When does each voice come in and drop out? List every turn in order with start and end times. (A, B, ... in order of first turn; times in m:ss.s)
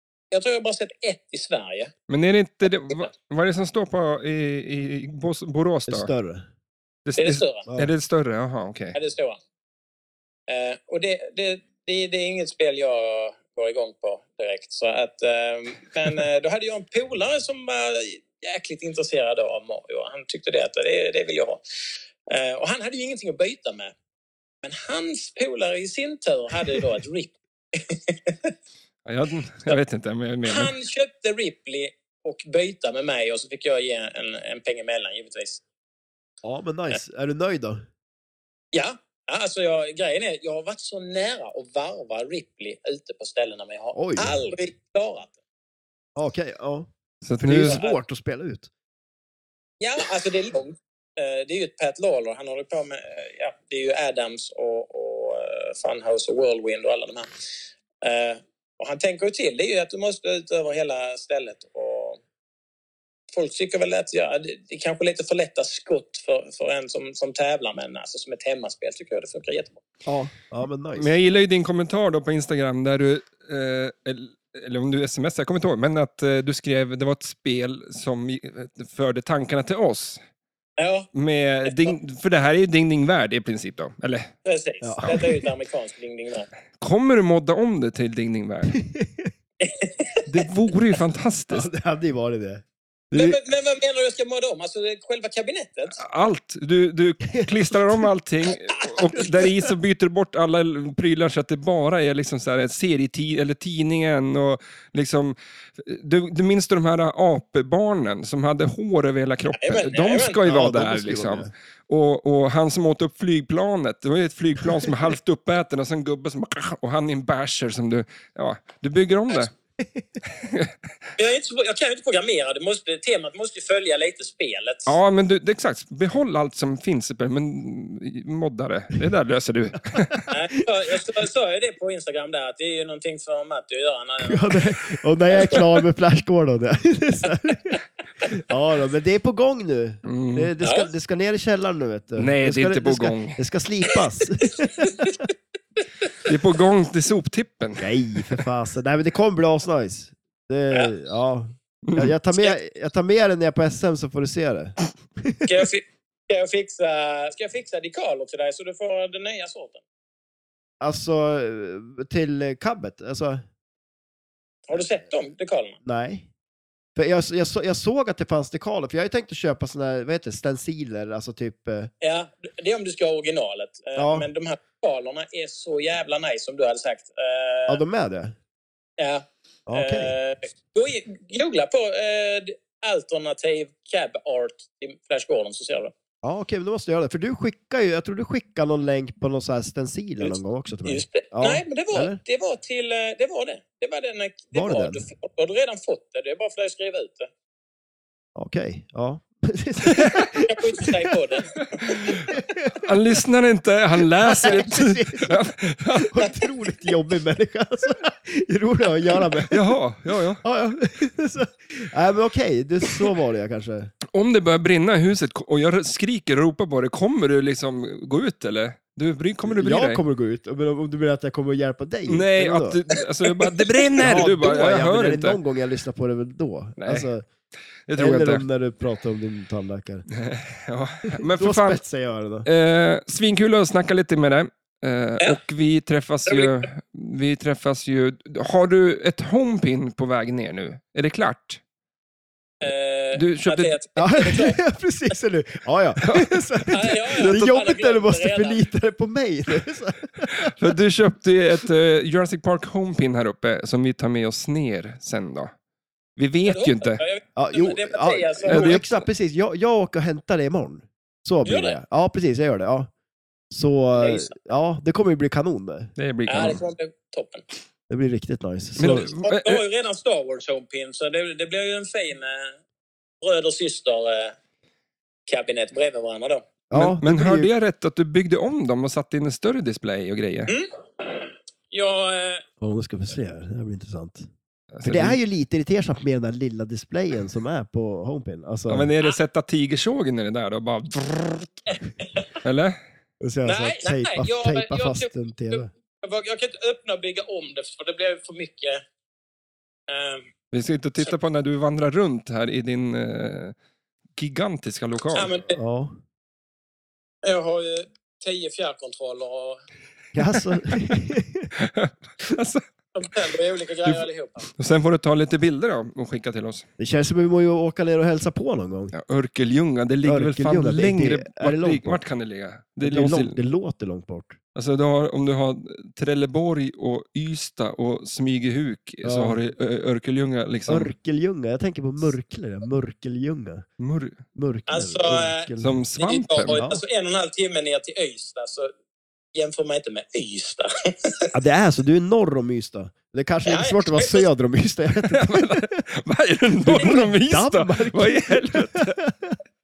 0:00.3-0:01.9 A
0:02.1-0:06.1 B
0:05.9-0:06.4 C
0:07.0-0:09.0 B
0:07.2-0:07.6 A
0:08.9-0:09.4 A
0:10.5-0:21.6 A
0:22.3-0:23.9 A
0:24.6-0:28.5 A
0:29.0-0:30.7 B
0:30.4-0:35.6 A
0:36.4-0:37.8 C
0:38.7-0:45.4 A
0:43.9-0:44.4 C
0:46.2-0:46.9 C
0:47.2-0:47.8 B
0:47.4-0:48.7 C
0:47.6-0:48.0 A
0:49.8-0:57.3 A
0:58.0-1:02.2 A
1:03.3-1:09.8 A
1:10.0-1:11.1 C
1:11.0-1:20.2 B
1:20.8-1:21.1 A
1:21.1-1:24.3 B
1:21.7-1:21.9 A
1:24.4-1:26.5 A
1:24.8-1:25.3 C
1:26.8-1:28.8 B
1:28.8-1:29.3 C
1:29.6-1:30.2 A
1:30.3-1:31.7 B
1:31.5-1:32.6 C
1:33.1-1:36.0 A
1:36.0-1:59.5 B
1:49.5-1:50.4 A
1:50.4-1:51.5 C
2:00.4-2:00.7 B
2:01.2-2:05.0 A
2:04.8-2:10.2 B
2:09.8-2:10.3 C
2:10.3-2:15.8 A
2:14.2-2:25.3 C
2:20.0-2:20.5 B
2:20.6-2:20.9 A
2:22.2-2:23.4 B
2:24.4-2:25.2 A
2:26.2-2:27.9 B
2:27.8-2:35.4 C
2:31.8-2:32.1 B
2:35.4-2:39.8 A
2:40.8-2:43.4 C
2:44.7-2:45.8 A
2:45.8-2:46.3 C
2:47.0-2:51.9 C
2:52.0-2:57.8 A
2:54.0-2:54.3 C
2:57.7-2:58.3 C
2:59.0-3:05.9 A
2:59.7-3:00.1 C
3:06.2-3:12.2 C
3:10.2-3:17.3 A
3:14.5-3:15.0 C
3:18.4-3:21.1 C
3:20.4-3:21.8 A
3:21.8-3:22.3 B
3:22.3-3:22.7 C
3:22.8-3:26.2 B
3:24.2-3:25.4 C
3:26.1-3:29.6 C
3:29.5-3:30.4 B
3:30.4-3:33.9 C
3:34.1-3:40.0 B
3:39.4-3:42.8 C
3:42.1-3:45.4 B
3:44.0-3:47.2 C
3:46.8-3:47.1 B
3:47.9-3:48.4 B
3:47.9-3:50.0 C
3:50.1-3:51.8 B
3:51.2-3:52.5 C
3:52.4-4:01.6 B
3:56.3-3:56.6 A
4:02.6-4:04.6 A
4:03.1-4:03.7 B
4:04.0-4:10.5 C
4:06.0-4:07.5 B
4:06.7-4:08.6 A
4:10.4-4:15.5 B
4:16.2-4:17.0 B
4:16.4-4:18.8 A
4:17.4-4:22.9 C
4:18.5-4:18.9 B
4:21.4-4:21.8 A
4:23.5-4:25.9 C
4:24.0-4:24.3 A
4:26.0-4:26.6 B
4:26.3-4:27.4 A
4:27.9-4:29.1 C
4:28.8-4:29.6 B
4:29.2-4:32.6 A
4:33.2-4:34.3 A
4:35.3-4:36.4 A
4:36.7-4:37.5 C
4:36.7-4:40.5 B
4:40.5-4:42.4 A
4:42.6-4:44.3 C
4:44.7-4:45.2 B
4:44.8-4:48.9 C
4:48.7-4:51.7 B
4:51.7-4:52.3 A
4:52.4-4:52.8 B
4:53.2-4:55.7 C
4:53.4-4:58.8 A
4:59.9-5:00.2 A
5:00.5-5:03.5 B
5:04.2-5:05.3 B
5:05.1-5:05.6 A
5:05.5-5:06.0 C
5:07.2-5:09.6 A
5:10.1-5:11.5 C
5:10.3-5:11.0 B
5:11.6-5:12.6 B
5:13.0-5:14.5 A
5:13.8-5:16.7 B
5:16.8-5:18.9 C
5:18.9-5:23.4 B
5:20.0-5:22.0 C
5:22.8-5:24.4 C
5:24.5-5:30.9 B
5:29.0-5:29.4 C
5:30.7-5:33.7 C
5:33.8-5:34.2 B
5:34.3-5:35.8 C
5:34.7-5:38.7 A
5:35.6-5:36.6 B
5:36.5-5:36.8 C
5:39.3-5:41.3 A
5:41.3-5:45.6 C
5:43.4-5:44.2 A
5:45.1-5:49.0 B
5:46.6-5:49.3 C
5:46.7-5:47.0 A